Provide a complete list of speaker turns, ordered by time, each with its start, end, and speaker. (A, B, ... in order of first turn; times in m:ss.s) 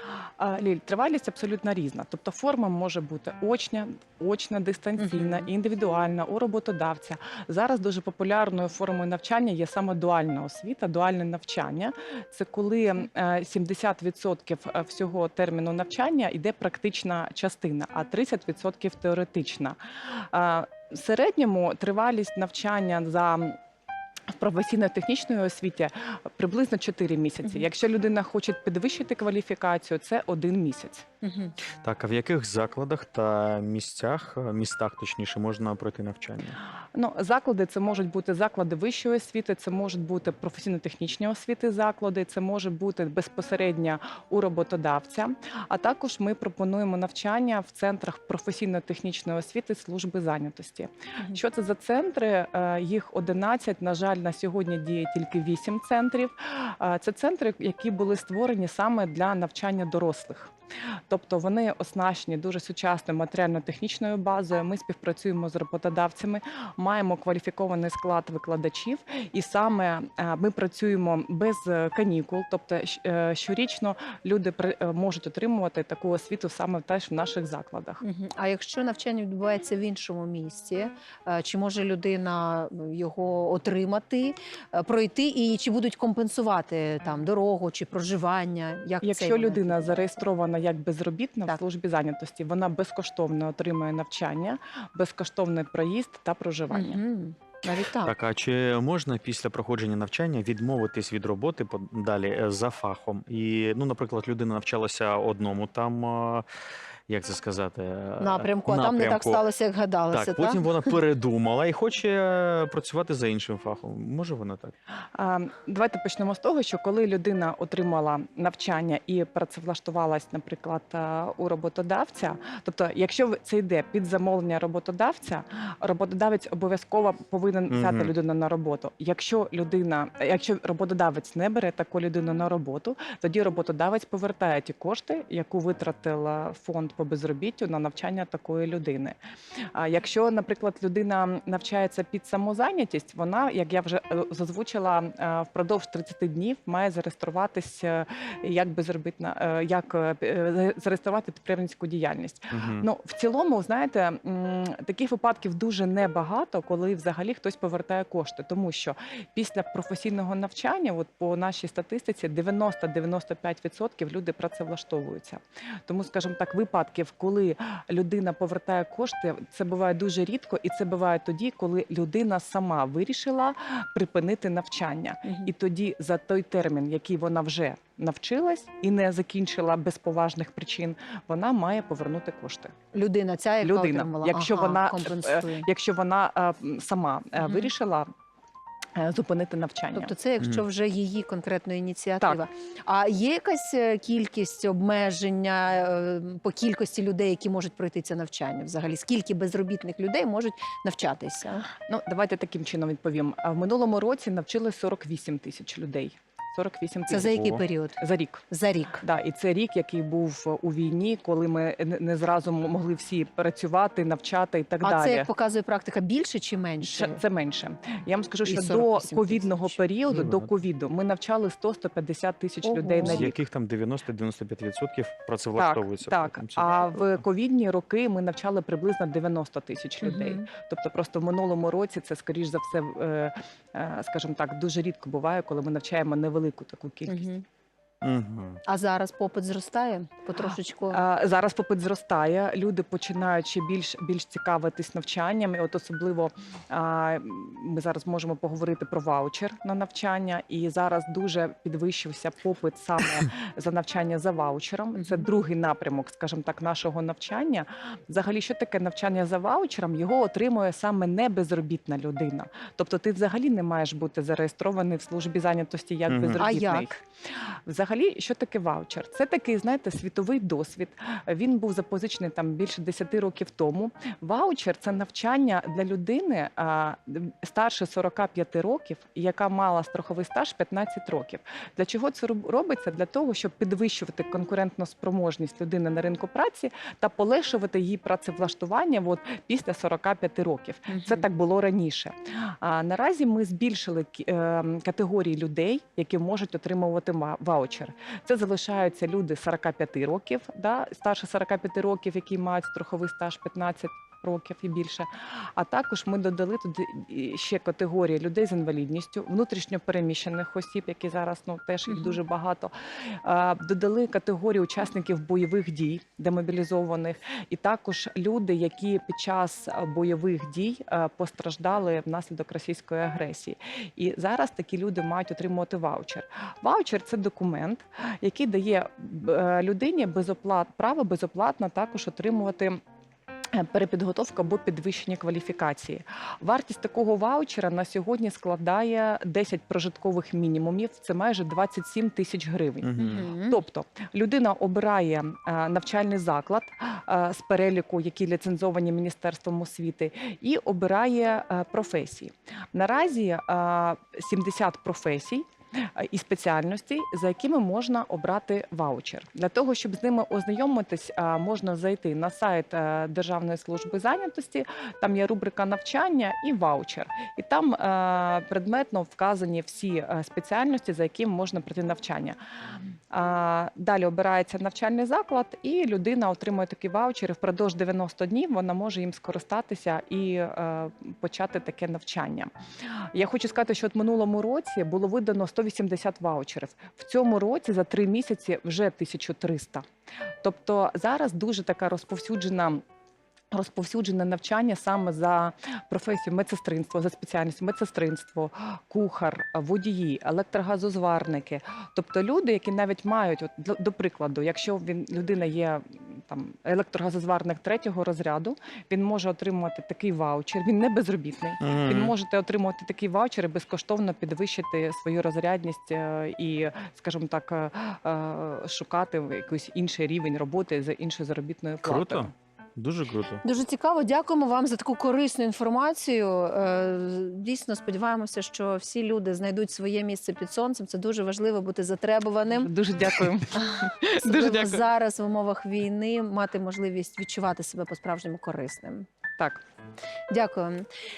0:00.4-0:23.6 A
0:05.0-0:05.5 B
0:24.3-0:31.1 A
0:31.2-0:31.6 B
0:31.8-0:36.6 C
0:37.0-1:00.5 A
1:01.1-1:18.0 A
1:18.0-1:30.2 B
1:29.0-1:37.0 A
1:36.7-1:38.2 B
1:38.0-1:46.4 C
1:47.1-1:49.4 C
1:48.2-1:51.0 B
1:50.1-1:54.7 C
1:55.2-2:19.2 A
2:07.7-2:08.1 C
2:19.8-3:02.7 A
2:32.5-2:32.9 C
2:55.2-2:55.5 B
3:02.9-3:05.7 B
3:03.6-3:08.1 A
3:07.4-3:07.7 B
3:09.0-3:10.1 A
3:09.9-3:21.7 B
3:21.9-3:28.4 A
3:27.1-3:28.0 B
3:28.5-3:29.0 B
3:29.0-3:35.3 A
3:34.8-3:37.2 B
3:36.8-3:43.4 A
3:38.5-3:39.8 B
3:40.1-3:40.5 C
3:42.6-3:43.3 B
3:43.0-3:47.1 C
3:45.6-3:57.3 A
3:50.0-3:50.5 B
3:57.1-3:57.4 B
3:58.0-3:58.6 C
3:58.7-4:01.0 B
4:00.4-4:27.0 A
4:15.0-4:15.2 B
4:26.1-4:26.5 C
4:26.4-4:26.9 B
4:27.7-5:12.7 A
4:50.9-4:51.2 B
5:11.9-5:12.2 B
5:13.2-5:32.8 A
5:33.5-5:55.4 A
5:42.8-5:43.3 C
5:43.0-5:43.6 B
5:56.0-6:12.4 A
6:13.1-6:22.5 A
6:23.1-6:29.8 A
6:30.4-6:32.8 A
6:33.5-7:02.3 A
6:51.6-6:52.1 C
7:01.8-7:03.4 C
7:03.4-7:12.7 B
7:12.6-7:14.8 A
7:13.5-7:19.1 B
7:20.3-7:20.9 B